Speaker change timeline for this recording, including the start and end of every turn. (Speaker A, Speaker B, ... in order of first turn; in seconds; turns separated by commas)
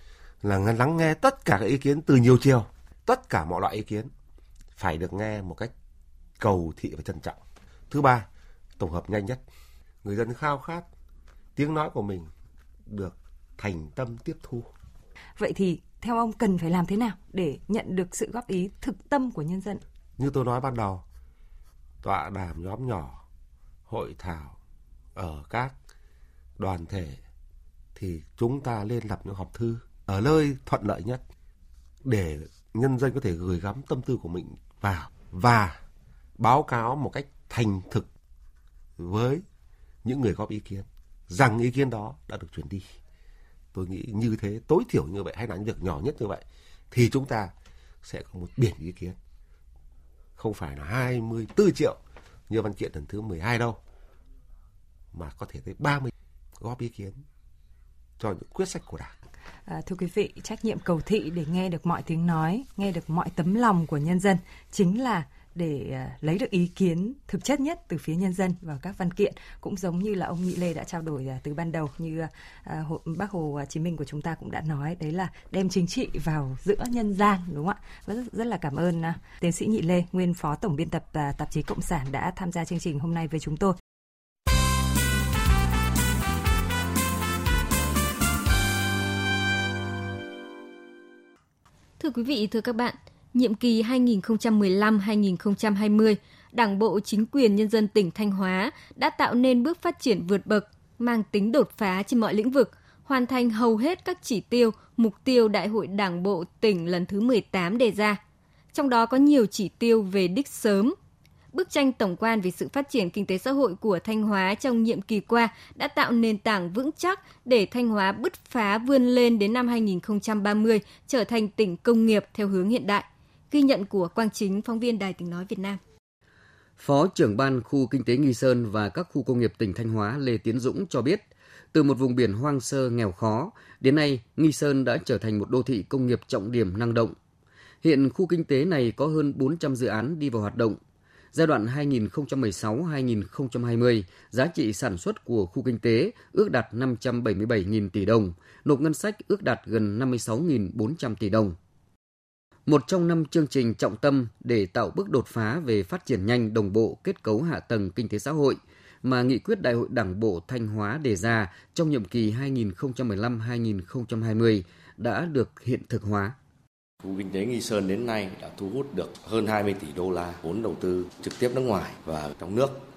Speaker A: 0.4-4.1, Speaker A: 4.8-5.7, Speaker A: 6.4-7.4, Speaker A: 7.9-8.3, Speaker A: 8.8-9.4, Speaker A: 10.0-10.8, Speaker A: 11.6-12.3, Speaker A: 12.9-14.7, Speaker B: 15.4-19.8, Speaker A: 20.2-21.0, Speaker A: 22.0-23.2, Speaker A: 23.9-24.6, Speaker A: 25.1-25.7, Speaker A: 26.6-27.2, Speaker A: 27.9-31.2, Speaker A: 32.0-35.8, Speaker A: 36.4-38.1, Speaker A: 39.0-39.4, Speaker A: 40.0-42.9, Speaker A: 43.7-47.5, Speaker A: 48.0-49.2, Speaker A: 50.4-53.8, Speaker A: 55.1-57.2, Speaker A: 58.2-59.1, Speaker B: 59.7-83.7, Speaker C: 92.0-108.2, Speaker C: 108.7-110.9, Speaker C: 111.5-125.8, Speaker D: 126.8-137.1, Speaker D: 137.8-140.8, Speaker D: 141.3-151.6, Speaker D: 152.7-166.3, Speaker E: 167.0-172.8